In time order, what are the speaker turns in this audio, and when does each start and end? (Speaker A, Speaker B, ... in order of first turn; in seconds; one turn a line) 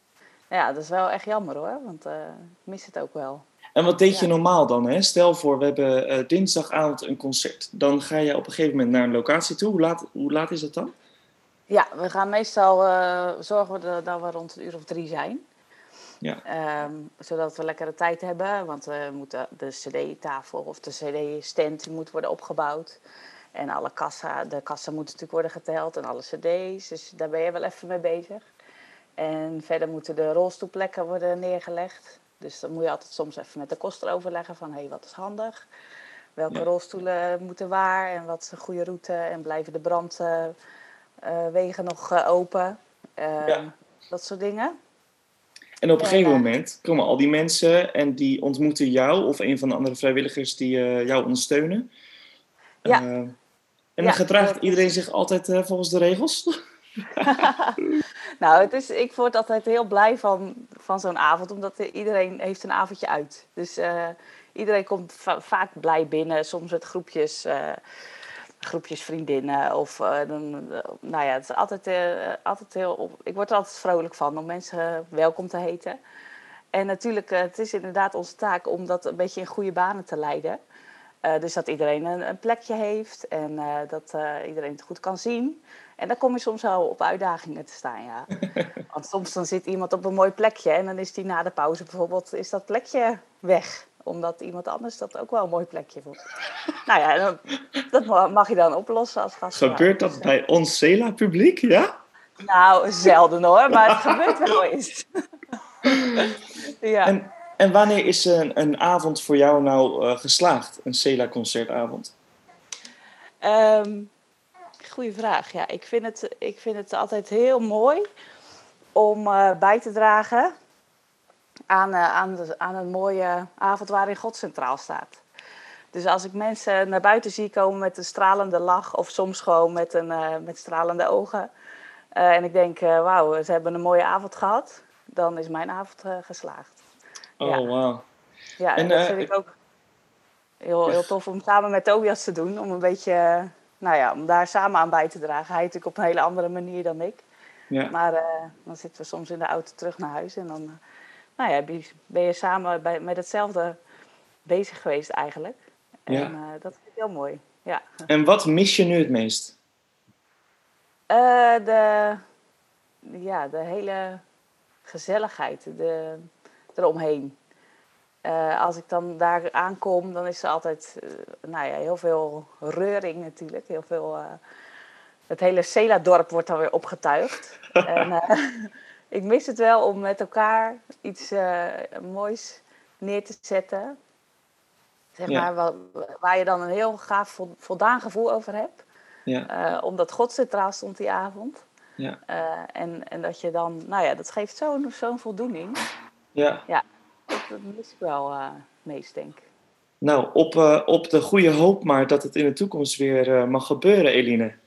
Speaker A: 0.5-3.4
Speaker B: 3.8-10.9
Speaker A: 11.7-15.4
Speaker A: 16.4-23.0
Speaker A: 23.6-28.5
Speaker A: 29.2-35.6
Speaker A: 36.4-40.6
Speaker A: 41.2-44.7
Speaker B: 45.8-51.9
Speaker A: 46.0-46.5
Speaker B: 52.8-53.4
Speaker B: 54.0-56.6
Speaker A: 54.0-54.9
Speaker A: 57.2-57.8
Speaker A: 58.4-67.8
Speaker A: 68.6-76.0
Speaker A: 76.7-80.6
Speaker A: 81.2-88.3
Speaker A: 88.9-96.2
Speaker A: 96.9-100.3
Speaker B: 99.6-102.0
Speaker A: 102.4-105.1
Speaker B: 103.8-104.5
Speaker B: 105.8-106.2
Speaker A: 106.8-107.1
Speaker B: 107.0-112.1
Speaker A: 113.4-114.1
Speaker A: 114.8-118.0
Speaker A: 119.0-120.5
Speaker A: 121.7-125.2
Speaker A: 125.9-131.5
Speaker A: 132.1-136.8
Speaker B: 137.4-138.1
Speaker A: 137.4-137.7
Speaker A: 138.6-139.5
Speaker B: 138.8-139.3
Speaker A: 140.6-147.2
Speaker A: 147.9-150.8
Speaker A: 151.4-153.8
Speaker A: 154.5-155.6
Speaker B: 156.1-156.3
Speaker A: 156.1-158.0
Speaker B: 158.1-159.5
Speaker A: 161.1-162.2
Speaker A: 163.1-164.2
Speaker A: 164.9-167.3
Speaker A: 168.2-174.4
Speaker A: 175.3-184.0
Speaker B: 177.8-178.1
Speaker A: 185.2-188.8
Speaker A: 189.5-191.6
Speaker A: 192.3-195.8
Speaker B: 196.3-196.6
Speaker A: 196.7-199.4
Speaker B: 200.0-204.6